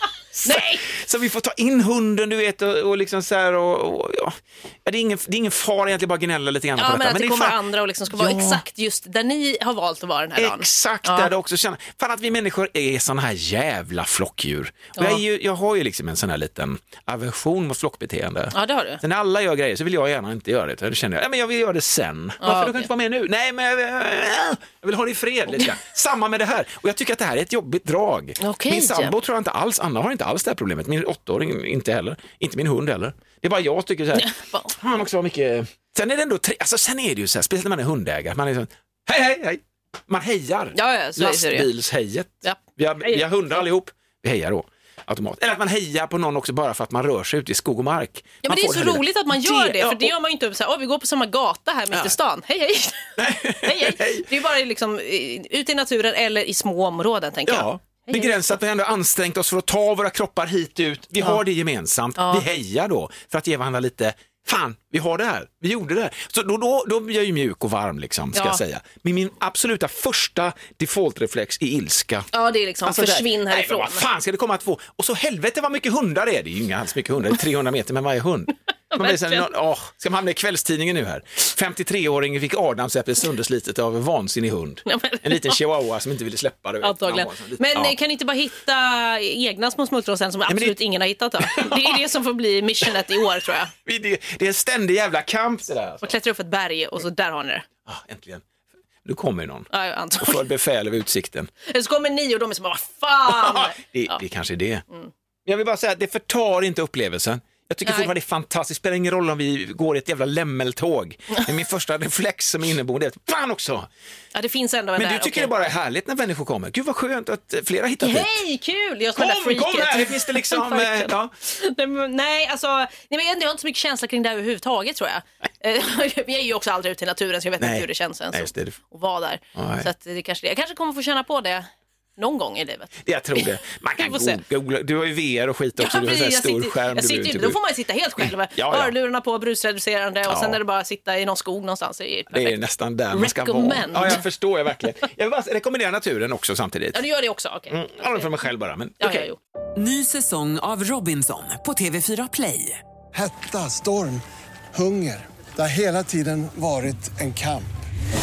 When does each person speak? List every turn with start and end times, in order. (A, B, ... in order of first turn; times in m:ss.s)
0:00.4-0:08.6 A
0:00.4-0:00.8 B
0:06.8-0:11.3 B
0:10.4-0:50.1 A
0:18.5-0:19.0 B
0:22.4-0:22.9 B
0:28.4-0:29.1 B
0:34.2-0:34.7 B
0:40.7-0:41.7 B
0:42.4-0:43.2 B
0:48.4-0:58.4 B
0:53.2-0:54.3 A
0:57.5-1:12.3 A
1:02.2-1:02.5 B
1:08.3-1:08.6 B
1:12.3-1:14.0 B
1:12.9-1:27.9 A
1:18.9-1:19.5 B
1:24.8-1:25.6 B
1:26.8-1:33.7 B
1:30.5-1:30.8 A
1:31.4-1:32.0 A
1:33.8-1:36.1 A
1:36.0-1:37.6 B
1:37.8-1:38.4 A
1:39.0-1:41.5 A
1:39.7-1:40.4 B
1:41.6-1:44.2 B
1:43.2-1:44.8 A
1:45.5-1:53.9 A
1:47.8-1:48.1 B
1:54.3-1:55.5 B
1:55.0-1:58.4 A
1:58.0-2:11.6 B
1:59.2-2:01.3 A
2:07.6-2:08.8 A
2:09.6-2:09.9 A
2:12.2-2:13.4 B
2:13.0-2:17.6 A
2:14.0-2:14.4 B
2:15.8-2:22.6 B
2:18.2-2:19.0 A
2:20.3-2:20.6 A
2:22.3-2:27.0 A
2:23.1-2:24.2 B
2:26.9-2:28.2 B
2:27.7-2:29.3 A
2:29.0-2:29.4 B
2:29.8-2:32.8 C
2:33.1-2:37.7 D